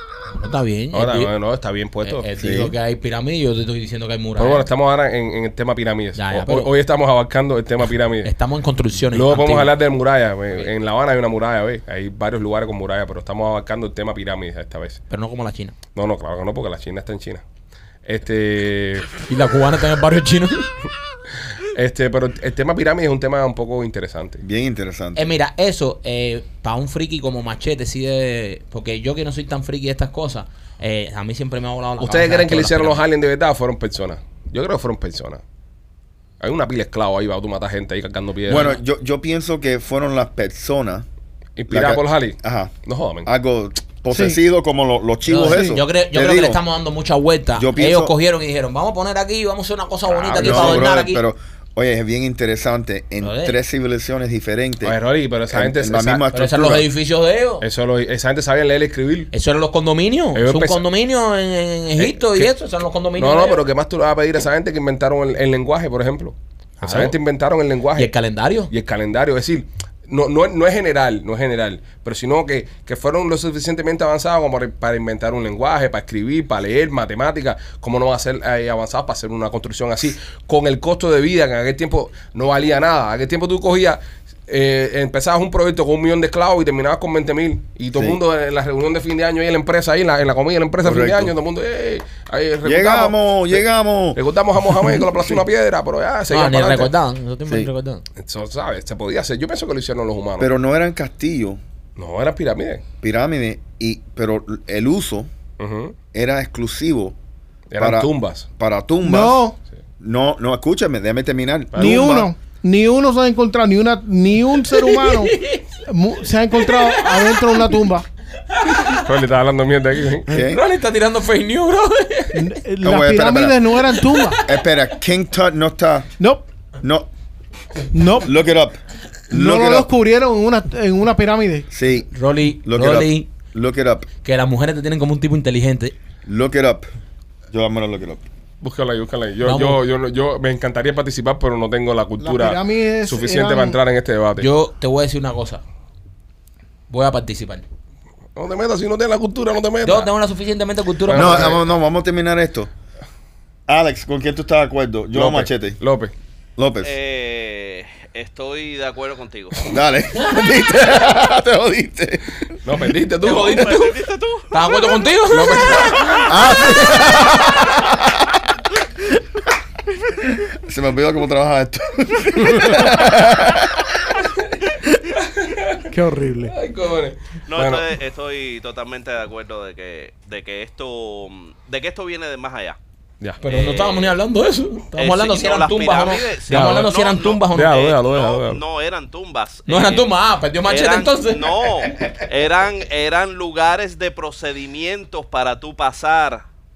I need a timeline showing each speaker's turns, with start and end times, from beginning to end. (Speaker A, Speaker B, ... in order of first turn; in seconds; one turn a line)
Speaker A: 0.3-1.3
Speaker B: 0.9-2.3
Speaker A: 2.0-4.6
Speaker C: 2.4-2.7
Speaker B: 4.4-8.3
Speaker A: 6.2-6.7
Speaker A: 8.2-9.7
Speaker B: 9.1-15.0
Speaker A: 15.1-15.8
Speaker B: 15.9-17.4
Speaker B: 18.0-19.2
Speaker A: 19.2-20.7
Speaker B: 21.6-24.4
Speaker C: 24.4-25.3
Speaker A: 25.1-33.0
Speaker B: 32.0-35.4
Speaker B: 36.4-38.7
Speaker C: 38.5-41.0
Speaker A: 38.5-38.8
Speaker B: 41.6-43.3
Speaker C: 41.7-46.6
Speaker D: 44.1-44.4
Speaker A: 45.2-51.2
Speaker D: 45.5-45.8
Speaker C: 47.5-48.1
Speaker B: 50.2-50.9
Speaker C: 50.2-55.0
Speaker A: 53.2-53.6
Speaker B: 54.8-56.2
Speaker C: 55.5-56.9
Speaker A: 56.3-57.6
Speaker B: 57.6-59.3
Speaker A: 59.3-63.6
Speaker B: 60.3-60.8
Speaker B: 62.0-62.5
Speaker B: 63.2-68.1
Speaker A: 66.8-67.2
Speaker A: 68.0-68.7
Speaker B: 68.7-93.6
Speaker C: 87.9-88.2
Speaker C: 90.8-91.3
Speaker C: 92.6-94.2
Speaker B: 94.1-96.9
Speaker A: 96.3-98.0
Speaker B: 98.2-100.5
Speaker C: 100.4-101.6
Speaker B: 102.0-102.8
Speaker C: 103.0-105.3
Speaker B: 105.6-106.0
Speaker C: 106.1-107.1
Speaker B: 107.7-108.5
Speaker C: 107.8-109.4
Speaker D: 109.0-109.6
Speaker C: 110.0-112.3
Speaker B: 111.7-112.3
Speaker D: 111.8-118.0
Speaker A: 114.7-115.7
Speaker A: 116.7-117.6
Speaker A: 118.5-119.0
Speaker B: 118.9-120.3
Speaker C: 120.3-120.6
Speaker A: 120.4-122.4
Speaker D: 122.3-124.4
Speaker C: 122.8-123.7
Speaker C: 124.4-126.1
Speaker D: 126.2-126.5
Speaker C: 126.8-127.1
Speaker D: 127.9-128.3
Speaker C: 128.2-128.8
Speaker C: 129.3-129.9
Speaker D: 129.3-131.7
Speaker C: 131.7-134.1
Speaker A: 132.1-133.3
Speaker A: 134.2-135.9
Speaker C: 136.2-136.9
Speaker C: 137.5-138.2
Speaker B: 138.6-144.5
Speaker A: 139.4-139.8
Speaker D: 142.2-143.8
Speaker A: 144.4-145.6
Speaker A: 146.9-147.6
Speaker B: 148.3-150.1
Speaker A: 149.8-151.6
Speaker B: 151.1-151.6
Speaker C: 151.1-152.7
Speaker C: 153.7-155.8
Speaker B: 155.1-156.1
Speaker C: 156.6-156.9
Speaker E: 156.8-159.7
Speaker C: 159.7-162.3
Speaker B: 162.6-163.8
Speaker E: 163.2-164.5
Speaker A: 163.2-163.9
Speaker A: 164.5-166.3
Speaker B: 165.3-166.3
Speaker C: 166.3-168.0
Speaker C: 170.4-174.0
Speaker B: 175.2-175.9
Speaker D: 175.9-176.6
Speaker B: 176.4-177.9
Speaker E: 177.5-182.8
Speaker A: 183.4-187.9
Speaker E: 183.4-184.2
Speaker E: 184.9-190.1
Speaker B: 186.5-186.9
Speaker B: 187.5-188.6
Speaker A: 189.7-191.6
Speaker E: 190.7-196.4